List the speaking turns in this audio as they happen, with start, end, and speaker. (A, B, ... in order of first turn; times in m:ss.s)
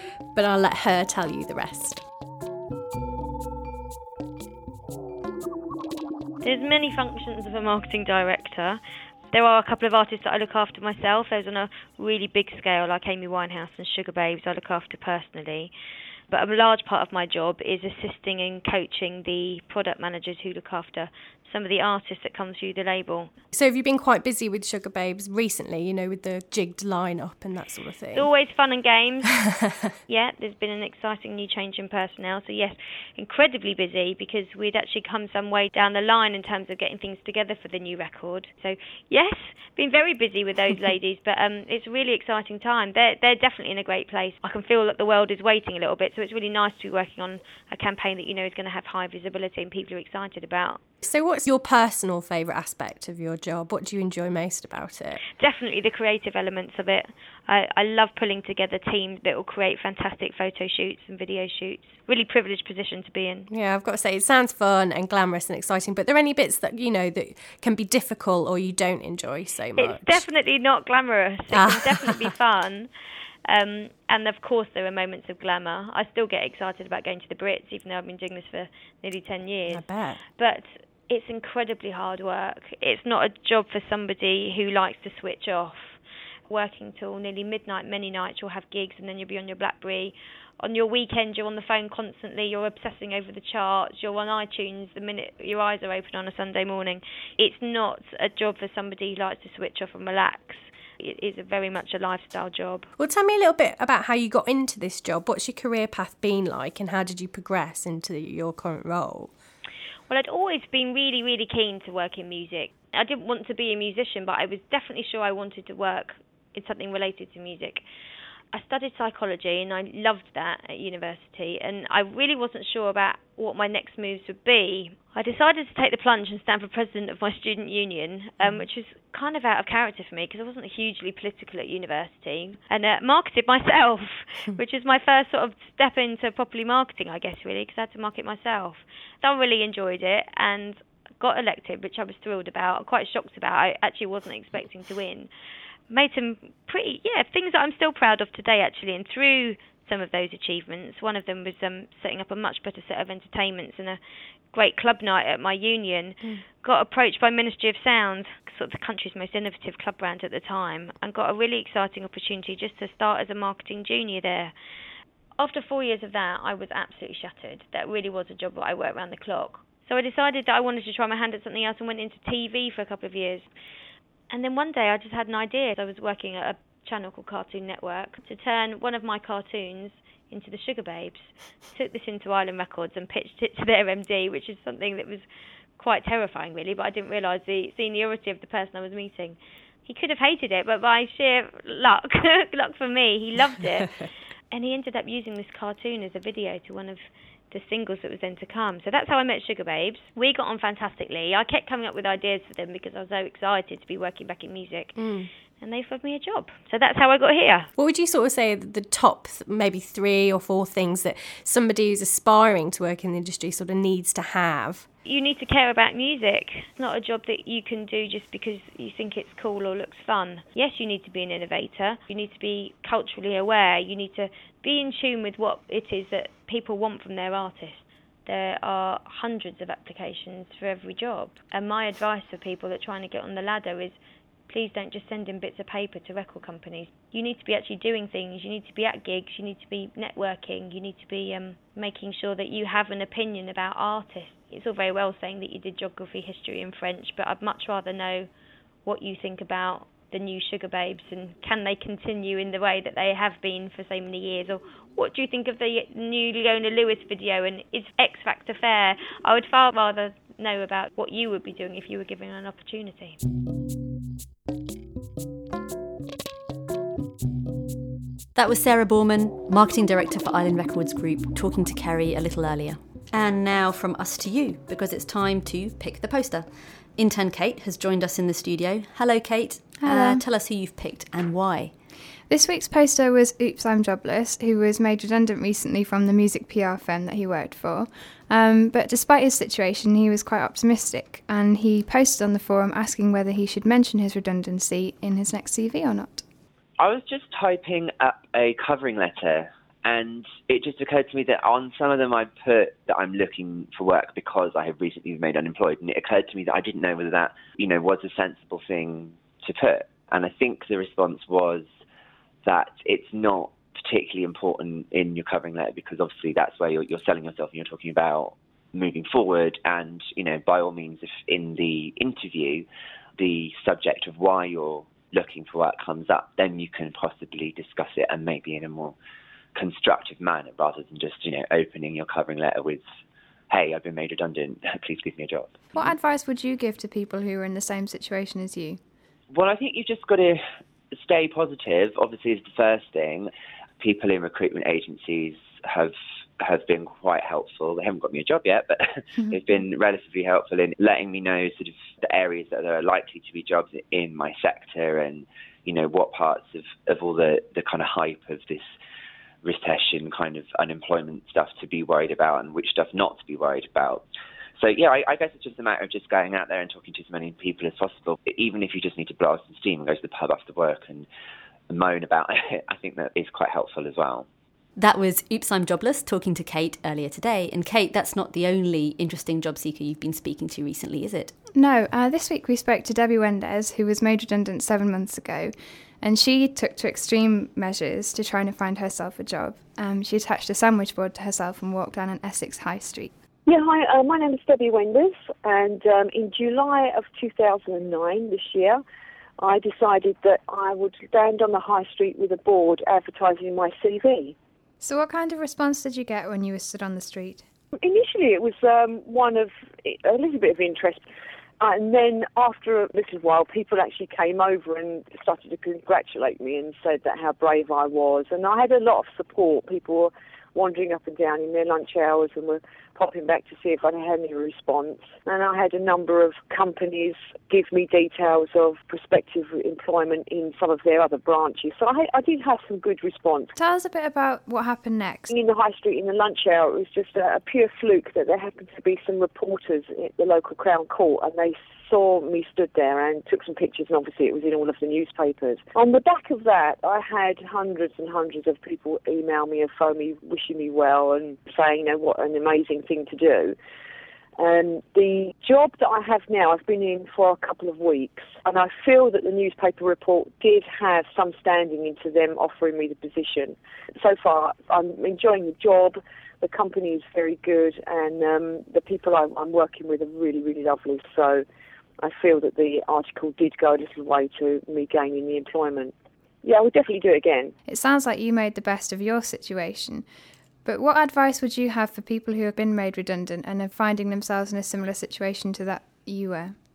0:00.4-0:02.0 A
0:06.4-0:08.8 B
0:09.3-0:15.7 B
0:16.3-0:23.3 B
0:23.5-0:28.3 A
0:28.1-0:29.3 B
0:30.1-0:50.8 B
0:51.0-0:55.2 A
0:55.4-1:03.5 B
1:03.5-1:10.2 A
1:09.8-1:12.9 B
1:11.5-1:12.3 A
1:13.5-1:19.8 B
1:19.7-1:20.2 A
1:20.4-1:26.0 B
1:26.5-1:42.9 B
1:43.0-1:49.3 A
1:50.1-1:57.8 B
1:58.5-2:25.3 B
2:25.9-2:34.0 B
2:34.5-2:44.5 B
2:45.4-2:53.5 B
2:54.3-3:05.3 B
3:05.8-3:25.0 B
3:25.0-3:25.3 A
3:25.6-3:27.7 B
3:27.8-3:34.8 A
3:35.1-3:54.0 B
3:54.5-4:08.3 B
4:08.8-4:23.2 B
4:28.4-4:36.5 C
4:37.0-4:41.7 C
4:39.8-4:40.2 D
4:42.3-4:56.2 D
4:56.8-5:11.6 E
5:12.5-5:22.6 E
5:23.2-5:28.9 E
5:29.6-5:32.8 E
5:33.5-5:35.5 E
5:35.7-5:38.8 D
5:39.4-5:40.4 E
5:41.0-5:43.3 E
5:43.8-5:45.9 E
5:46.4-5:48.8 E
5:49.3-5:58.6 E
5:59.4-6:04.0 E
6:04.6-6:11.0 E
6:11.7-6:14.2 E
6:14.8-6:21.3 C
6:21.6-6:33.1 D
6:33.5-6:38.8 F
6:39.4-6:44.4 F
6:44.8-6:47.4 D
6:47.8-6:51.0 F
6:51.6-7:13.5 F
7:13.6-7:15.3 D
7:15.3-7:33.6 F
7:34.4-7:51.4 F
7:52.0-7:57.5 F
7:57.7-8:00.0 D
8:00.6-8:06.5 D